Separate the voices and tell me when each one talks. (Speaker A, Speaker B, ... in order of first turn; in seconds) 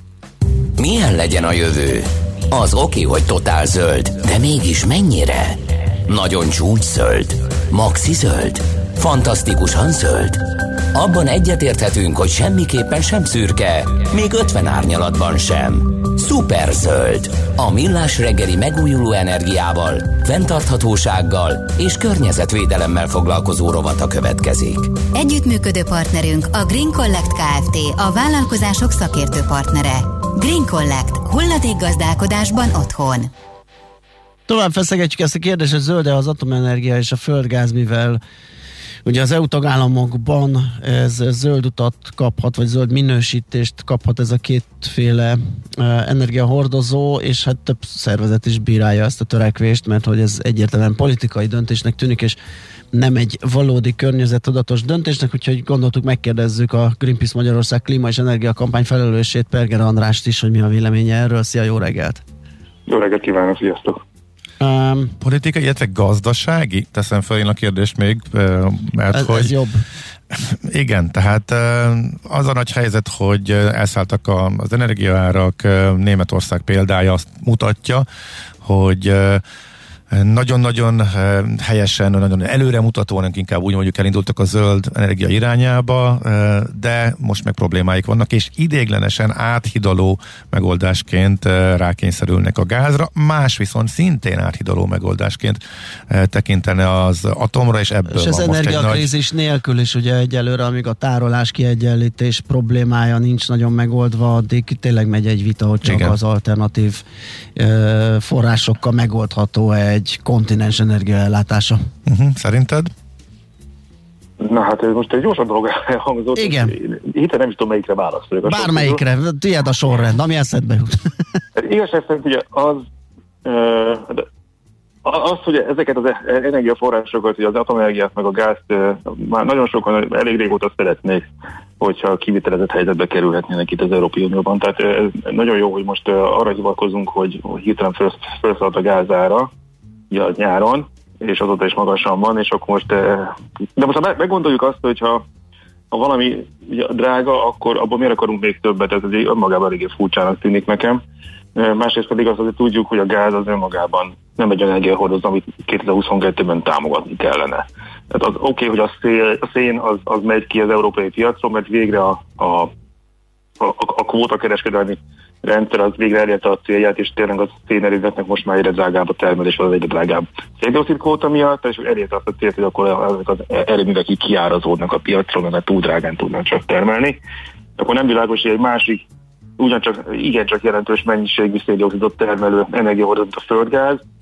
Speaker A: 0.8-24.9
Speaker B: 25.1-33.3
Speaker C: 34.5-38.2, 39.0-52.4, 52.9-62.2, 64.6-65.2, 69.1-69.8, 98.1-107.0, 107.5-111.8, 116.3-116.7, 118.4-121.0
Speaker D: 62.9-64.0, 114.4-119.0, 121.5-122.8, 123.4-124.2, 125.0-131.3, 131.8-139.5, 140.1-145.2, 145.9-151.0, 151.5-162.7, 163.6-177.2, 177.8-179.0, 179.6-184.0
Speaker E: 65.2-69.5, 70.3-78.0, 78.6-79.4, 80.1-95.6, 96.1-99.1, 105.8-106.2, 112.1-112.9